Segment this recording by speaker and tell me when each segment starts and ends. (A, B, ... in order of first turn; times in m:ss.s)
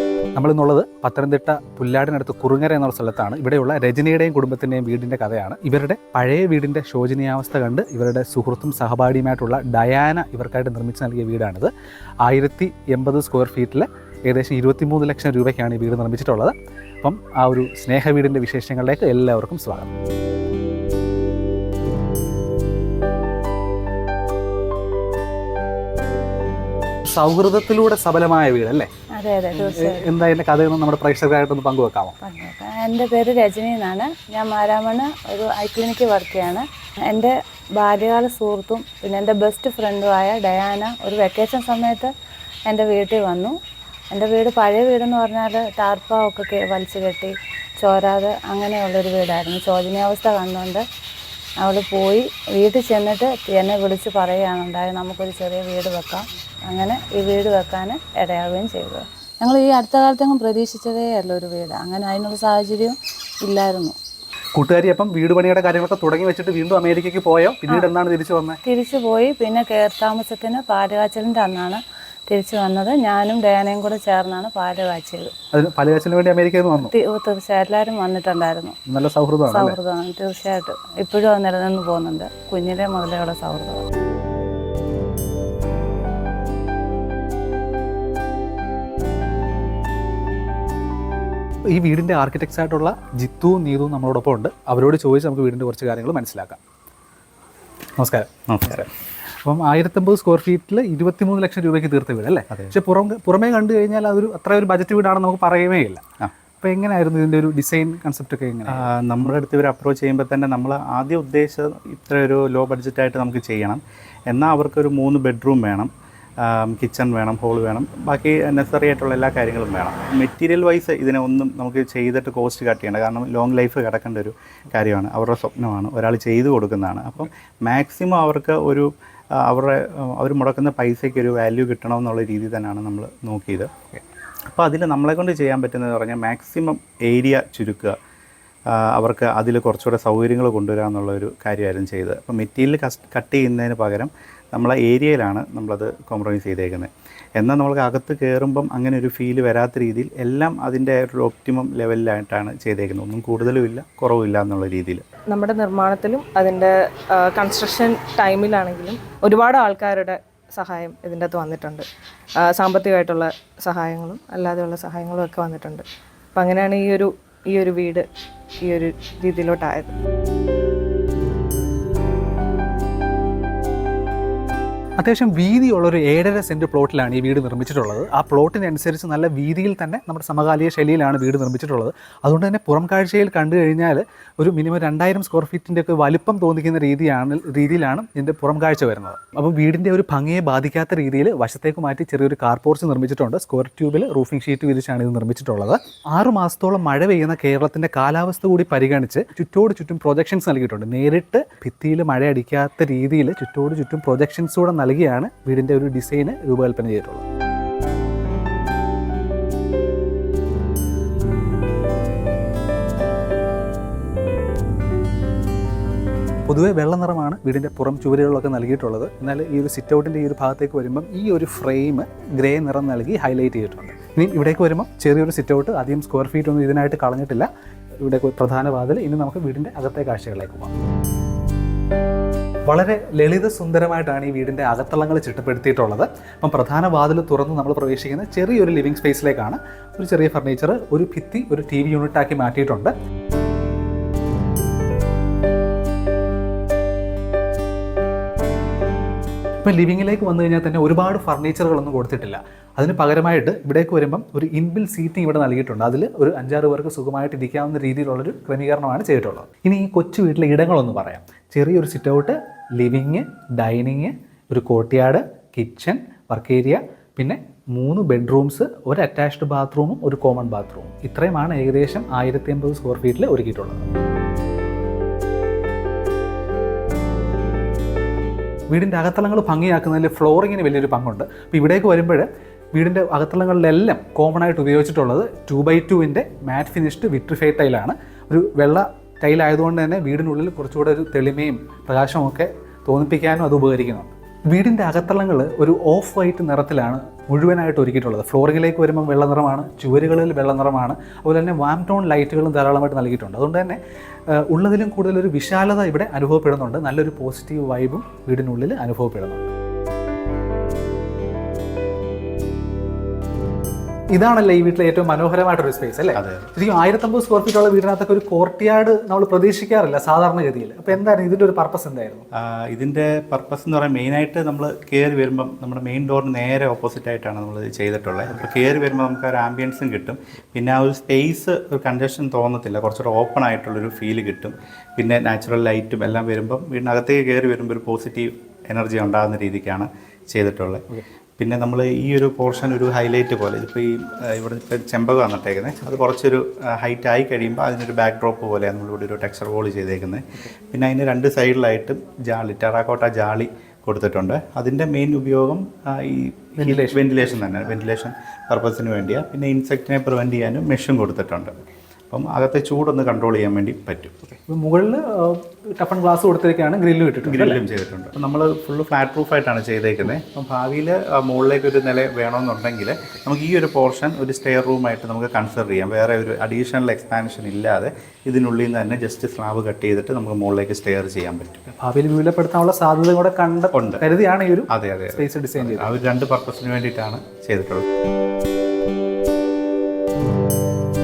0:00.4-0:11.7 A
0:12.2-0:19.9 A
0:27.0-0:28.9 A
0:29.2-0:30.1 B
0:29.5-0:32.2 A
0:32.2-0:42.1 B
0:42.7-0:43.6 B
0:44.1-0:50.8 B
0:51.6-1:04.0 B
1:04.5-1:08.6 A
1:08.6-1:15.3 B
1:15.5-1:16.9 A
1:16.9-1:18.8 B
1:18.9-1:19.8 A
1:19.5-1:23.9 B
1:31.7-1:36.6 A
1:38.0-1:38.9 A
1:38.5-1:38.9 C
1:39.4-1:46.0 A
1:46.6-1:48.9 A
1:48.7-2:08.9 C
2:09.4-2:14.0 C
2:14.5-2:18.0 C
2:18.7-2:35.0 C
2:35.3-2:41.9 D
2:42.4-2:48.1 D
2:48.6-2:49.9 D
2:55.0-3:27.2 A
3:36.5-3:50.8 A
3:52.7-4:02.9 A
4:09.6-4:33.9 A
4:38.7-5:09.5 A
5:14.1-5:22.2 A
5:16.2-5:16.5 C
5:22.4-5:40.9 C
5:41.4-6:01.5 C
5:56.6-5:57.4 A
6:02.1-6:04.2 C
6:04.5-6:07.6 A
6:07.2-6:21.6 C
6:21.7-6:25.9 A
6:23.7-6:24.0 C
6:24.7-6:27.9 C